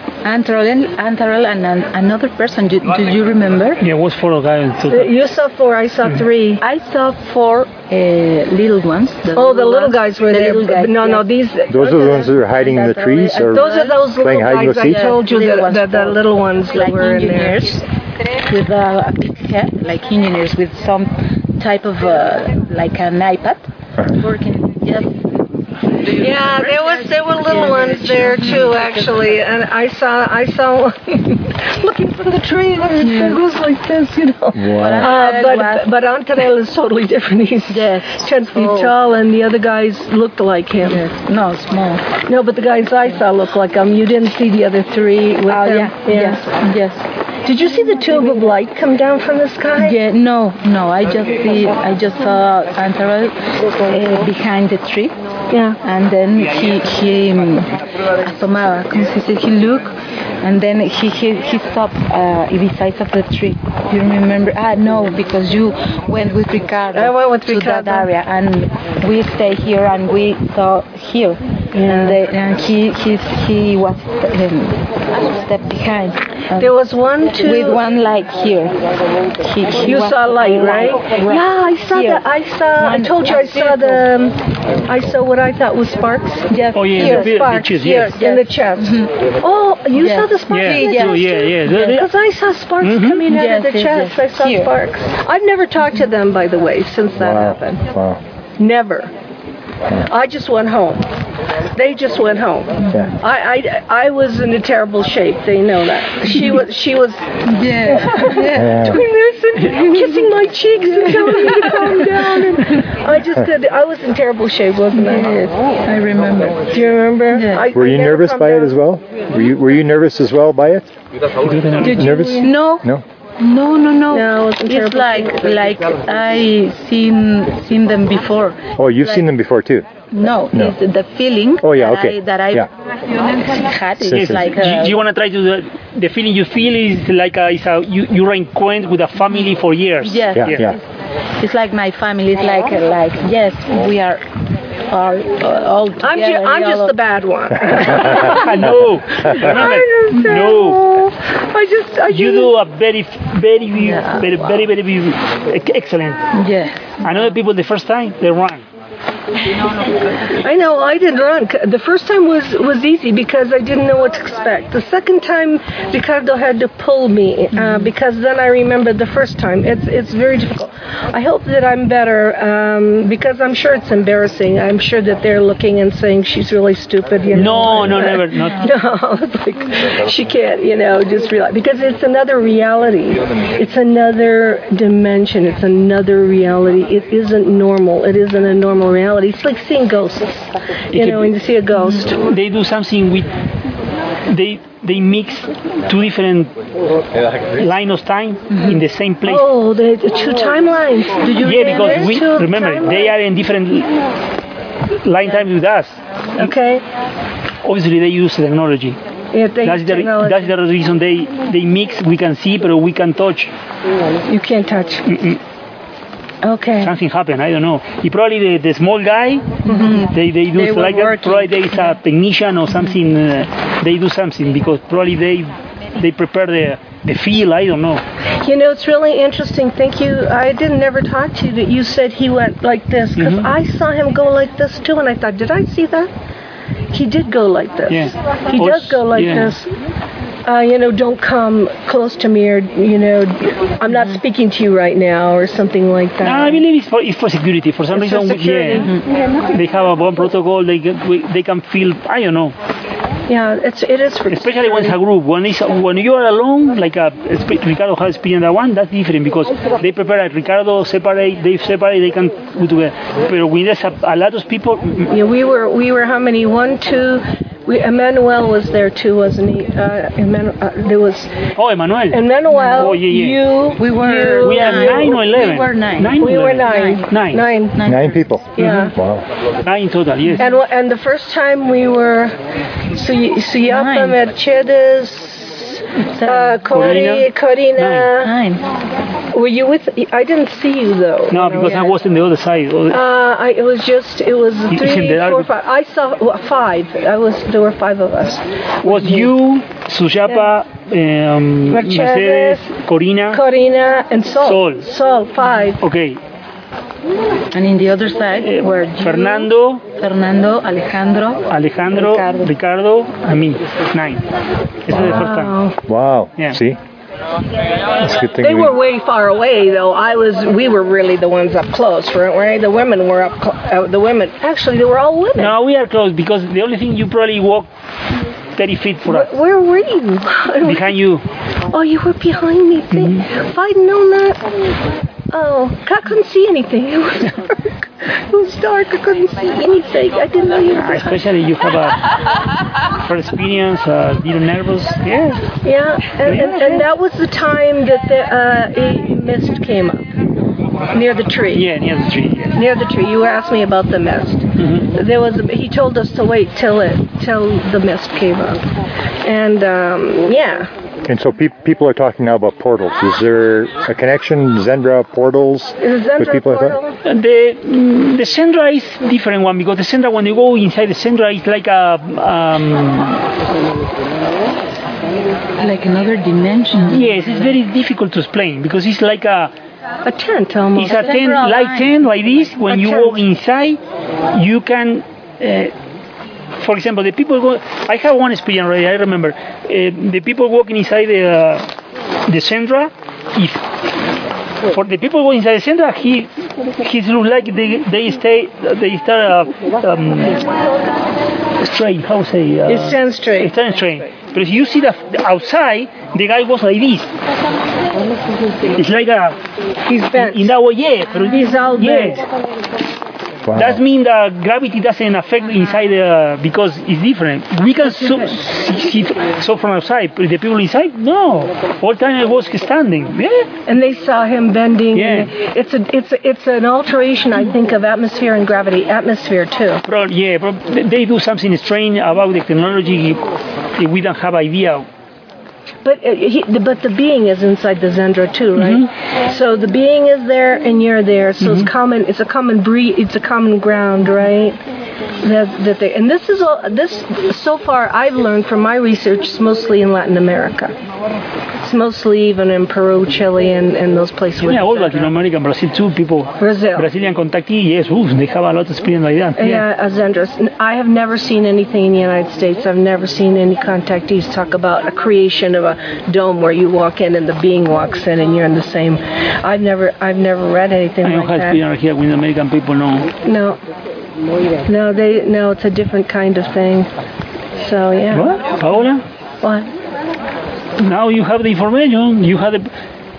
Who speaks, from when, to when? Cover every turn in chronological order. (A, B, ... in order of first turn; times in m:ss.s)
0:00.2-0:03.8 A
0:03.8-0:05.1 B
0:04.9-0:06.6 C
0:06.6-0:11.3 A
0:09.3-0:12.4 C
0:11.7-0:15.0 D
0:12.4-0:17.8 A
0:13.5-0:17.8 C
0:18.4-0:25.4 A
0:26.0-0:41.0 C
0:26.0-0:29.3 A
0:33.0-0:35.9 A
0:34.5-0:35.2 D
0:37.7-0:39.0 A
0:40.8-0:42.0 A
0:42.2-0:46.6 C
0:45.5-0:47.1 A
0:47.4-0:50.0 C
0:49.8-0:55.1 A
0:55.5-0:55.8 C
0:55.8-1:16.8 A
1:06.9-1:08.1 C
1:11.7-1:12.2 C
1:16.6-1:17.9 C
1:17.4-1:18.8 A
1:19.3-1:24.0 A
1:19.7-1:37.8 C
1:26.5-1:29.1 A
1:26.8-1:28.2 B
1:29.9-1:32.0 A
1:30.5-1:32.1 B
1:32.8-1:33.2 B
1:33.2-1:34.7 A
1:37.2-1:38.2 D
1:38.6-1:39.1 C
1:39.9-1:41.1 C
1:41.8-1:55.3 C
1:46.3-1:46.6 A
1:47.4-1:49.0 A
1:48.5-1:49.0 D
1:49.7-1:50.2 A
1:51.5-1:52.4 A
1:54.9-1:56.6 A
1:56.7-1:58.7 C
1:57.3-1:57.8 A
1:57.7-2:00.8 D
2:01.4-2:02.0 B
2:01.8-2:02.5 C
2:01.8-2:09.3 A
2:02.0-2:03.0 D
2:04.1-2:05.6 C
2:08.8-2:09.9 D
2:10.1-2:12.7 A
2:11.6-2:12.7 D
2:13.3-2:14.9 A
2:14.0-2:14.5 D
2:14.1-2:20.7 B
2:20.0-2:20.8 A
2:20.4-2:20.8 D
2:21.4-2:27.0 A
2:26.0-2:28.7 C
2:28.1-2:30.8 B
2:29.3-2:32.5 C
2:32.1-2:36.2 B
2:33.8-2:34.2 A
2:34.2-2:34.6 C
2:36.3-2:37.1 A
2:37.0-2:38.6 B
2:40.3-3:12.2 C
2:57.3-2:58.6 B
2:58.3-2:58.8 A
3:10.9-3:11.3 B
3:11.8-3:12.0 A
3:12.1-3:13.3 B
3:14.3-3:16.5 B
3:17.6-3:19.4 B
3:19.2-3:23.1 C
3:21.2-3:22.1 A
3:21.4-3:23.9 B
3:25.0-3:26.5 B
3:26.4-3:26.8 C
3:27.6-3:29.0 B
3:29.3-3:30.5 C
3:29.6-3:33.5 B
3:34.3-3:35.1 C
3:35.1-3:35.4 B
3:36.4-3:36.9 C
3:36.8-3:39.6 B
3:39.6-3:39.9 C
3:39.6-3:41.9 A
3:40.1-3:48.0 B
3:48.4-3:56.1 C
3:53.2-3:53.5 B
3:56.9-3:59.7 C
3:57.9-3:59.5 B
4:00.4-4:06.6 C
4:06.2-4:08.9 B
4:07.9-4:08.9 C
4:09.5-4:12.6 B
4:13.3-4:14.9 C
4:14.3-4:25.1 B
4:25.1-4:31.4 C
4:31.6-4:32.2 B
4:32.1-4:35.2 C
4:32.5-4:32.8 A
4:32.8-4:33.4 B
4:33.8-4:37.1 A
4:34.4-4:37.4 B
4:36.1-4:37.8 C
4:37.7-4:38.3 A
4:37.9-4:39.2 D
4:38.6-4:38.9 C
4:38.6-4:38.9 B
4:39.6-4:40.5 B
4:40.4-4:42.3 C
4:42.9-4:48.3 C
4:43.6-4:44.2 A
4:46.1-4:46.7 A
4:46.7-4:48.1 B
4:48.2-4:48.6 A
4:49.3-4:51.9 C
4:51.3-4:53.0 B
4:52.9-4:59.3 C
4:54.7-4:55.5 B
4:58.8-5:03.4 B
5:01.7-5:02.7 C
5:03.3-5:05.8 C
5:04.4-5:04.9 B
5:05.8-5:06.2 B
5:07.5-5:12.6 A
5:08.4-5:09.8 B
5:11.5-5:14.2 B
5:14.8-5:15.6 B
5:14.9-5:15.8 C
5:15.9-5:16.8 D
5:17.9-5:18.8 D
5:18.4-5:25.5 C
5:25.4-5:27.7 B
5:28.6-5:29.4 B
5:29.0-5:31.0 C
5:30.6-5:31.2 B
5:31.7-5:34.4 C
5:32.9-5:33.2 B
5:35.3-5:41.3 C
5:40.8-5:42.0 B
5:43.0-5:45.5 B
5:45.6-5:50.1 C
5:46.2-5:46.9 B
5:50.9-5:51.7 C
5:51.5-5:52.5 B
5:52.5-5:58.6 C
5:54.6-5:54.9 B
5:59.2-6:00.7 C
6:01.0-6:06.8 D
6:05.8-6:07.0 C
6:07.0-6:13.3 B
6:15.6-6:17.5 A
6:16.8-6:19.5 B
6:20.0-6:21.1 C
6:20.8-6:23.8 B
6:20.9-6:22.0 A
6:22.7-6:23.2 C
6:24.3-6:25.7 B
6:26.6-6:31.7 B
6:32.3-6:33.6 B
6:34.7-6:36.3 B
6:36.8-6:40.5 B
6:41.6-6:47.1 B
6:42.7-6:43.5 C
6:48.8-6:49.4 B
6:49.8-6:50.5 C
6:50.2-6:52.2 B
6:51.3-6:52.2 C
6:53.5-6:53.8 D
6:53.5-7:03.5 B
6:58.0-6:58.3 C
7:03.7-7:09.8 C
7:04.9-7:05.3 B
7:09.8-7:13.2 B
7:13.8-7:14.9 B
7:15.8-7:24.6 C
7:18.6-7:18.9 B
7:21.4-7:21.7 B
7:25.2-7:30.7 C
7:31.6-7:35.1 C
7:34.4-7:39.6 B
7:36.4-7:36.9 C
7:39.4-7:51.6 C
7:51.0-7:53.1 B
7:53.2-7:53.6 C
7:54.6-7:56.9 C
7:57.6-7:58.4 C
7:58.1-7:59.0 B
7:59.4-7:59.7 C
8:00.8-8:02.7 B